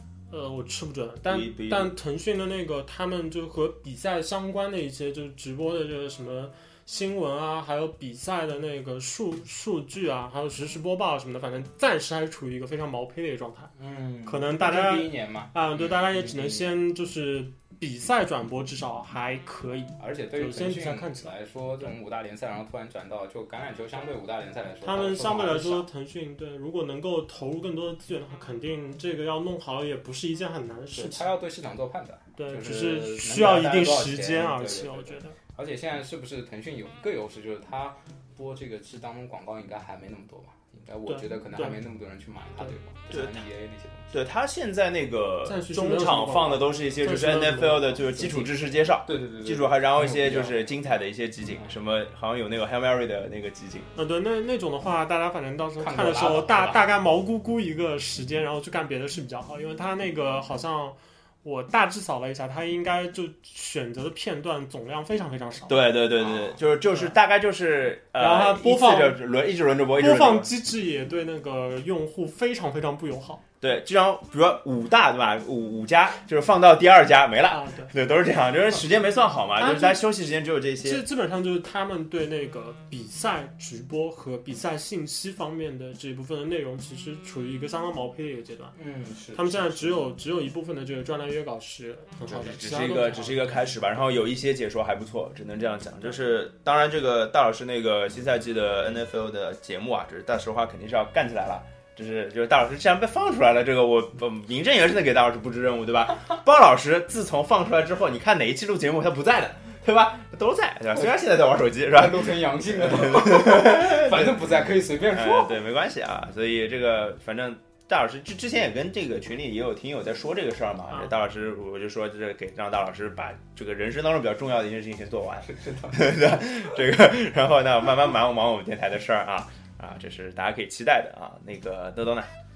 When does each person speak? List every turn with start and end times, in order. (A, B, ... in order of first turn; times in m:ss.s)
0:00.3-0:13.7 A
0:01.2-0:01.9 B
0:13.8-0:16.7 C
0:14.2-0:21.3 A
0:20.0-0:25.9 C
0:24.8-0:31.3 A
0:31.0-0:44.1 C
0:32.4-0:35.4 A
0:41.1-0:41.8 A
0:43.1-0:43.5 B
0:44.1-0:53.9 B
0:45.5-0:48.4 A
0:49.0-0:50.7 C
0:54.0-1:05.9 A
0:55.8-0:56.8 C
1:05.7-1:10.5 B
1:06.2-1:06.6 C
1:06.9-1:07.2 A
1:08.2-1:09.2 A
1:10.0-1:13.4 A
1:13.6-1:21.0 B
1:17.5-1:17.9 A
1:19.6-1:20.0 A
1:20.8-1:28.8 A
1:28.8-1:30.0 C
1:29.3-1:33.6 A
1:32.3-1:54.5 B
1:51.9-1:55.6 C
1:55.1-2:12.3 B
2:00.9-2:01.2 A
2:05.5-2:06.4 C